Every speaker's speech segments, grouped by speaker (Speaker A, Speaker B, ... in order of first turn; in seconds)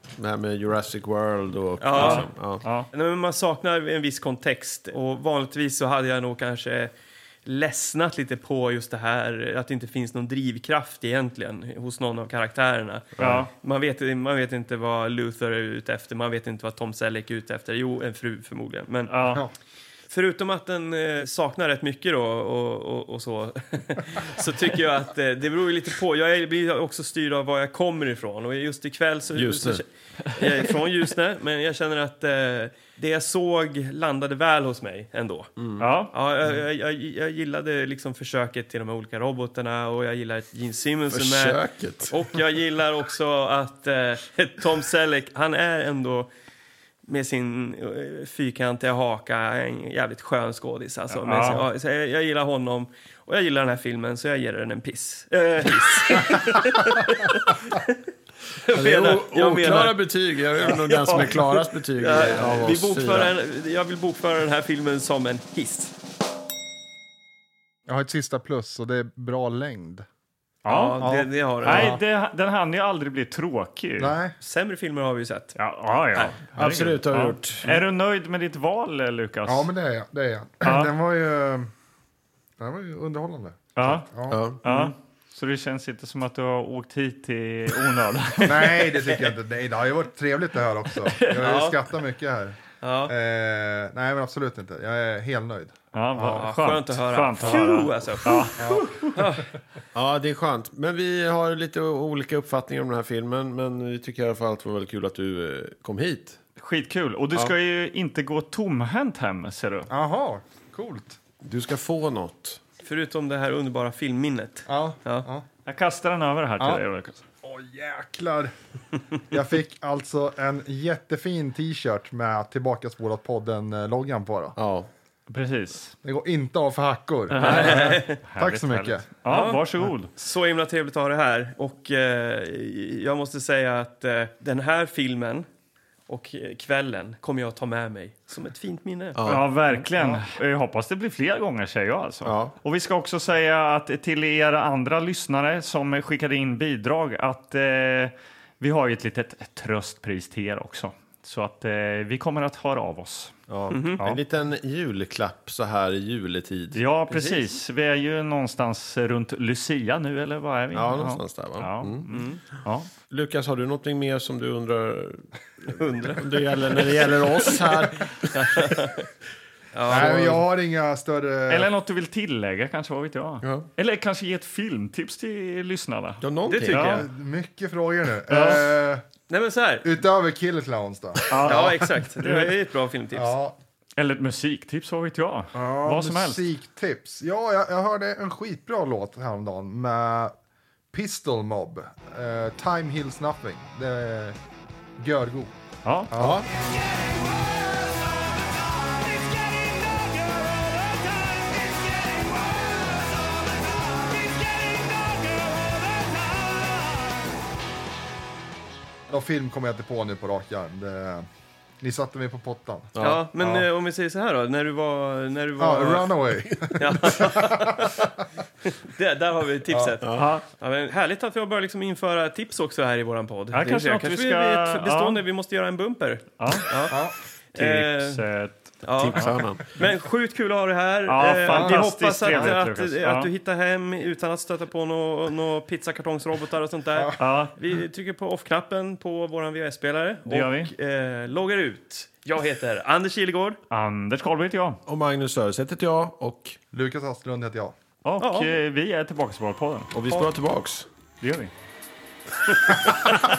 Speaker A: 0.2-2.6, 13.2-13.5, 29.4-29.8, 35.6-35.9, 41.1-42.2, 58.7-63.3, 76.5-77.7, 84.3-84.6, 100.0-106.4, 111.4-112.6, 124.6-124.9, 139.2-139.5, 142.2-142.6, 153.5-156.8, 160.7-162.1, 163.1-168.7, 173.4-173.7, 176.2-176.8, 196.2-196.5, 212.9-213.6, 220.0-220.3, 228.9-229.7, 244.9-246.6, 249.9-250.9
Speaker B: 1.8-2.3, 2.9-6.9, 7.5-19.4, 20.1-35.5, 36.1-46.3, 47.0-58.0, 58.6-60.1, 60.6-65.9, 70.7-72.0, 74.4-75.6, 84.7-84.9, 91.3-91.8, 92.8-93.1, 96.4-99.5, 112.8-115.3, 127.4-128.2, 129.3-135.5, 136.1-139.2, 153.7-154.0, 157.1-157.4, 162.1-162.4, 165.7-167.6, 168.3-169.1, 169.7-170.4, 176.5-177.1, 179.3-179.9, 181.3-183.3, 213.0-218.1, 218.7-226.9, 227.5-228.2, 228.8-243.6, 248.2-248.5, 252.5-253.2
Speaker C: 1.9-2.9, 13.2-13.5, 19.1-19.4, 35.8-36.1, 51.1-51.6, 70.7-71.1, 71.6-74.2, 75.6-79.7, 80.6-80.9, 83.8-84.1, 84.6-89.0, 95.9-99.2, 106.6-109.9, 115.7-117.2, 125.3-126.0, 127.3-130.1, 139.3-153.4, 156.7-162.9, 171.5-177.1, 178.3-178.7, 181.3-182.5, 184.0-186.4, 195.8-196.1, 220.1-220.4, 223.5-225.2, 226.4-226.8, 227.6-229.3, 231.1-233.3, 237.2-237.5, 240.3-240.7, 243.7-244.8, 248.0-249.9, 251.2-251.5
Speaker D: 67.9-70.1, 71.0-72.0, 74.0-74.4, 79.5-81.7, 82.6-84.4, 88.4-96.5, 97.4-97.7, 98.6-99.1, 109.9-111.2, 114.7-115.5, 117.4-118.5, 119.2-124.6, 126.0-129.1, 140.0-140.2, 169.9-171.7, 176.8-179.1, 179.8-181.9, 183.1-183.6, 185.5-190.3, 190.9-194.4, 195.0-195.5, 196.1-196.4, 209.1-211.3, 211.8-212.9, 215.6-218.0, 219.7-220.0, 226.9-227.2, 231.5-232.6, 246.7-247.8